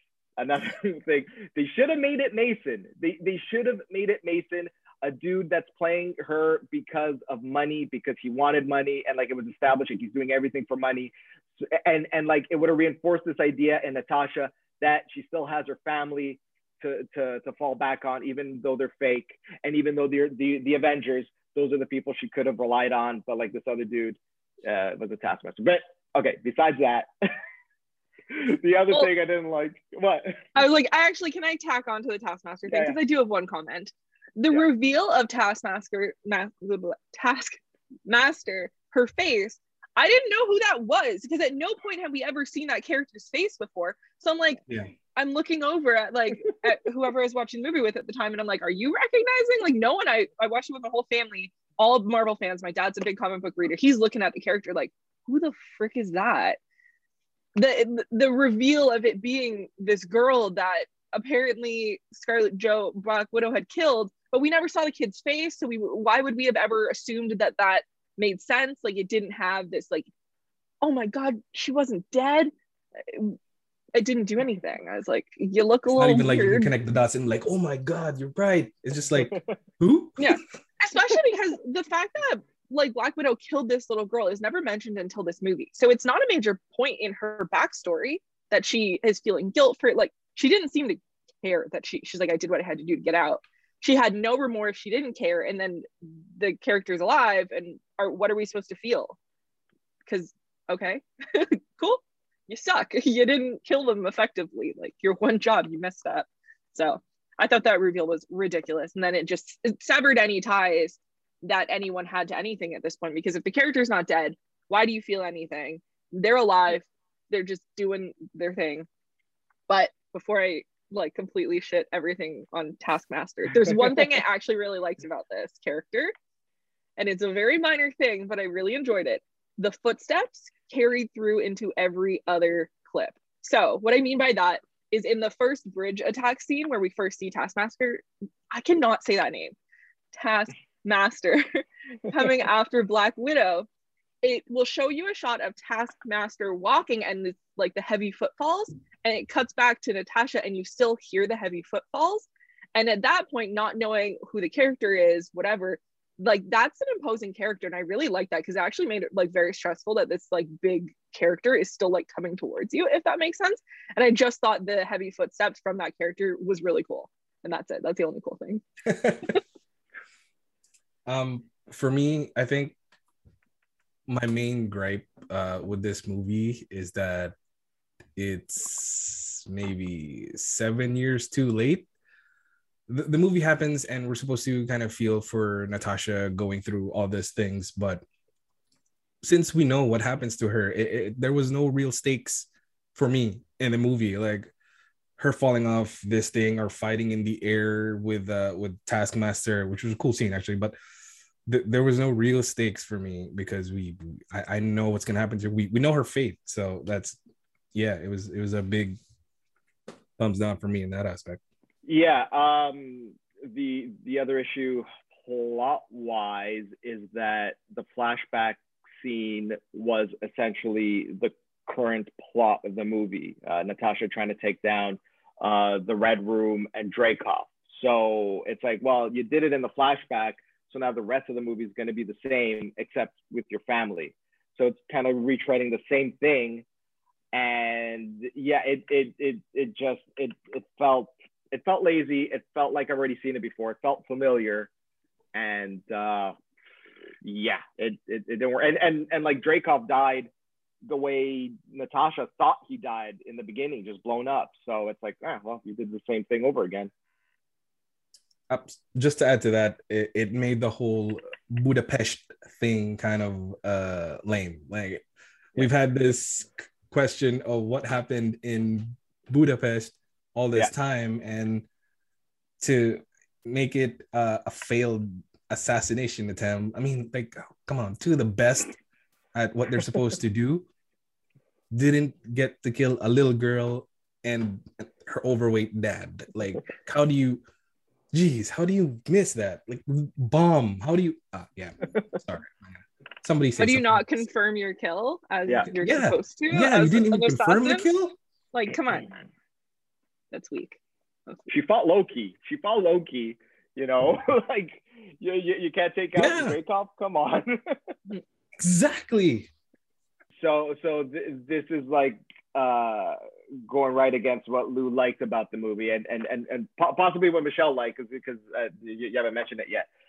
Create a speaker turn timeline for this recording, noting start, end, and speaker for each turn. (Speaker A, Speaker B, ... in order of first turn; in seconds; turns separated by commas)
Speaker A: 0.4-27.1, Speaker A: 28.3-30.5, Speaker B: 30.6-44.6, Speaker A: 32.7-33.0, Speaker B: 45.1-56.6, Speaker B: 57.5-70.1, Speaker B: 70.8-73.4, Speaker B: 73.9-76.7, Speaker C: 75.9-80.4, Speaker B: 80.2-99.2, Speaker B: 100.1-118.9, Speaker B: 119.7-126.1, Speaker B: 127.0-139.6, Speaker B: 140.1-143.7, Speaker B: 144.2-168.6, Speaker C: 168.9-169.3, Speaker C: 171.1-172.8, Speaker C: 174.1-177.3, Speaker C: 178.2-181.9, Speaker C: 182.9-188.0, Speaker C: 189.2-194.5, Speaker C: 195.2-200.8, Speaker C: 201.5-207.2, Speaker C: 207.7-209.0, Speaker C: 210.2-211.4, Speaker A: 211.9-236.6, Speaker A: 237.3-244.7, Speaker A: 245.3-246.3, Speaker A: 247.2-250.3, Speaker A: 250.8-256.9, Speaker C: 258.5-265.1, Speaker C: 265.6-271.7, Speaker C: 272.6-278.8, Speaker C: 279.4-280.7, Speaker C: 281.7-287.4, Speaker C: 288.1-294.2, Speaker B: 293.6-297.9, Speaker C: 295.8-298.2, Speaker B: 298.5-299.1, Speaker B: 300.3-301.5, Speaker A: 301.5-307.9, Speaker C: 306.1-306.6, Speaker C: 308.6-309.5, Speaker A: 310.4-319.9